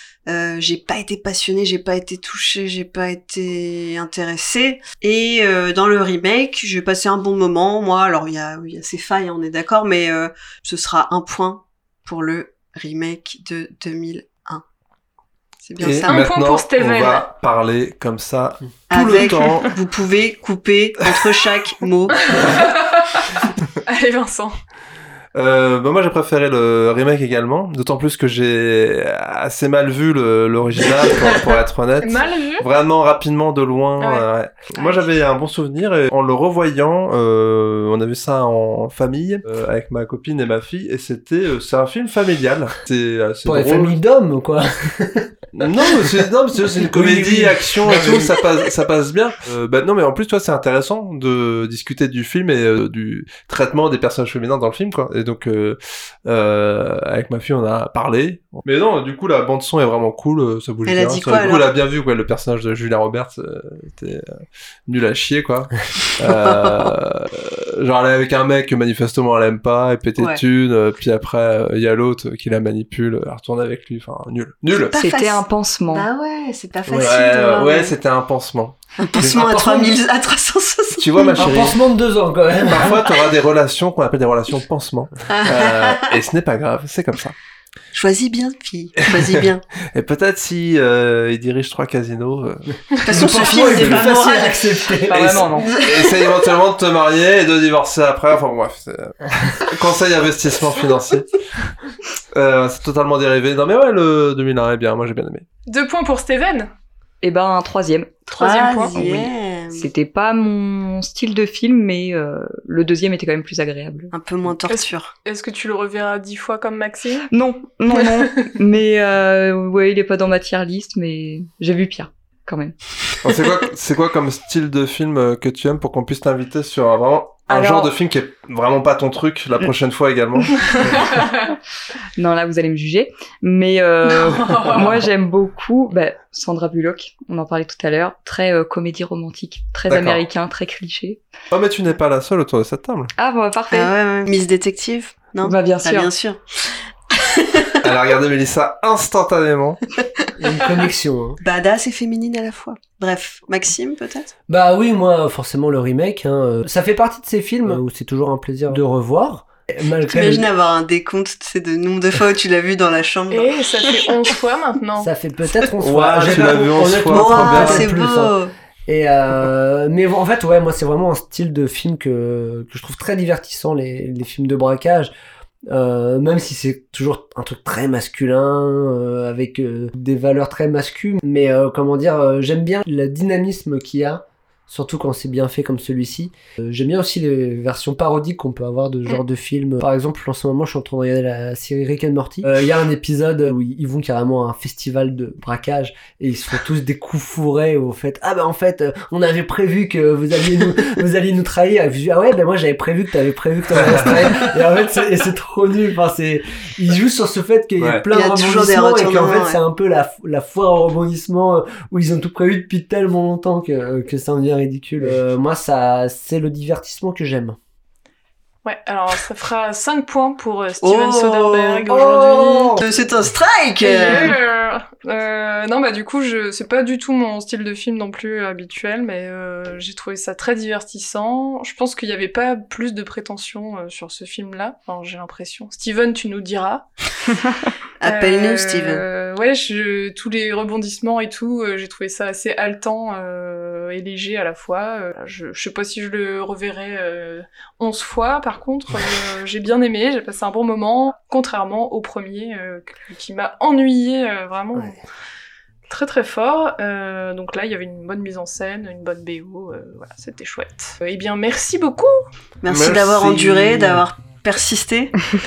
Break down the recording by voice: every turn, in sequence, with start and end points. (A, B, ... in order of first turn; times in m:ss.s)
0:00.3-0:14.6 A
0:15.6-0:16.2 A
0:15.8-0:19.7 B
0:16.1-0:17.3 C
0:18.9-0:22.7 A
0:22.3-0:23.2 C
0:23.9-0:24.6 C
0:25.4-0:44.0 B
0:32.0-0:32.7 C
0:34.0-0:35.1 C
0:43.4-0:45.9 D
0:45.5-1:04.3 B
0:46.8-0:48.4 D
1:00.9-1:01.7 A
1:04.9-1:15.0 B
1:14.7-1:18.0 A
1:14.9-1:16.1 E
1:16.9-1:17.1 D
1:16.9-1:19.6 B
1:19.0-1:21.7 A
1:19.2-1:20.0 D
1:21.0-1:21.8 B
1:21.4-1:23.0 D
1:22.6-1:27.4 B
1:25.3-1:26.1 A
1:27.9-1:29.6 A
1:29.0-1:29.4 B
1:29.9-1:34.1 B
1:33.0-1:36.6 A
1:33.1-1:35.5 D
1:35.1-1:35.7 E
1:35.1-1:41.3 B
1:42.3-1:45.4 B
1:45.7-1:46.7 C
1:47.2-1:48.3 E
1:48.3-1:49.9 A
1:48.3-1:49.0 C
1:48.9-1:54.1 E
1:54.1-1:55.1 A
1:54.7-1:57.3 C
1:57.3-2:02.8 E
1:58.0-1:58.2 C
2:03.2-2:11.2 B
2:07.5-2:07.9 E
2:10.6-2:11.3 C
2:12.2-2:21.2 E
2:14.1-2:14.8 C
2:19.9-2:20.2 B
2:21.5-2:23.1 B
2:23.2-2:23.9 E
2:23.7-2:27.9 A
2:25.4-2:26.1 E
2:27.8-2:29.8 B
2:30.4-2:31.4 D
2:31.4-2:34.3 A
2:34.5-2:40.5 D
2:40.1-2:44.0 A
2:43.3-2:45.1 C
2:45.0-2:55.1 D
2:45.8-2:47.9 B
2:46.3-2:48.5 A
2:55.7-3:37.6 D
3:23.8-3:24.1 B
3:27.8-3:28.0 B
3:28.1-3:29.6 A
3:38.6-3:42.8 C
3:40.8-3:44.4 A
3:41.9-3:42.8 D
3:43.8-3:56.9 C
3:58.0-3:59.0 A
3:58.0-4:15.0 C
4:15.9-4:22.2 C
4:22.6-4:25.2 A
4:22.7-4:24.0 B